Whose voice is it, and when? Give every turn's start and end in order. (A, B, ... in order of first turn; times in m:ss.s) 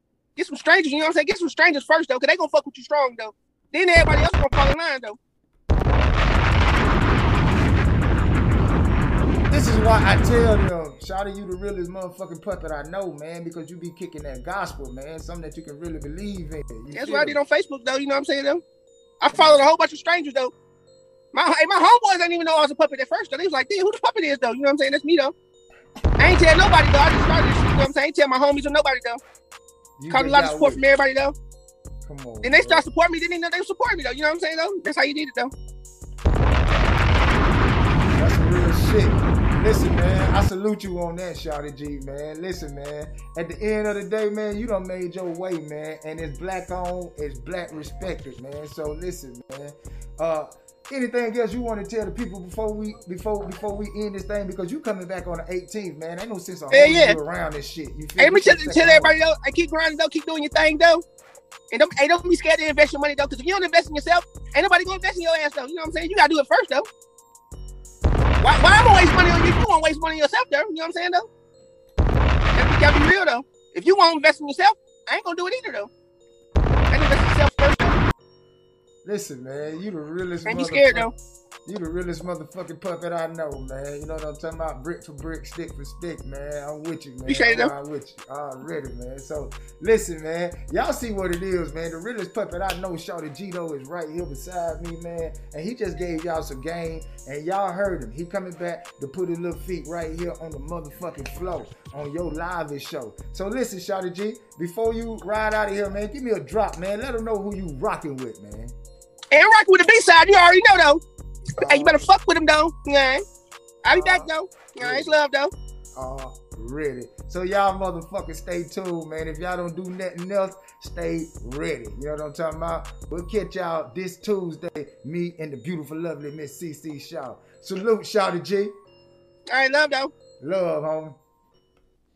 0:00.4-0:05.2 A
0:05.7-0:06.6 B
0:09.5-0:17.4 B
0:16.9-0:18.6 A
0:19.2-0:20.5 A
0:19.3-0:19.6 B
0:21.3-0:25.3 A
0:26.2-0:29.2 A
0:30.0-0:30.8 B
0:30.1-0:31.3 A
0:32.0-0:32.8 B
0:32.4-0:35.5 A
0:36.5-0:37.5 B
0:38.2-0:59.1 B
0:56.7-0:57.2 A
0:58.2-1:01.0 A
1:01.7-1:06.9 A
1:08.4-1:11.2 A
1:12.5-1:15.9 A
1:16.9-1:17.9 A
1:19.0-1:21.1 B
1:20.4-1:21.1 A
1:21.6-1:48.7 B
1:27.2-1:27.7 A
1:49.3-1:51.0 A
1:51.6-1:52.0 B
1:51.6-1:53.2 A
1:53.8-1:55.5 A
1:53.9-1:55.1 B
1:55.9-2:08.7 B
2:09.5-2:10.1 A
2:10.4-2:11.2 B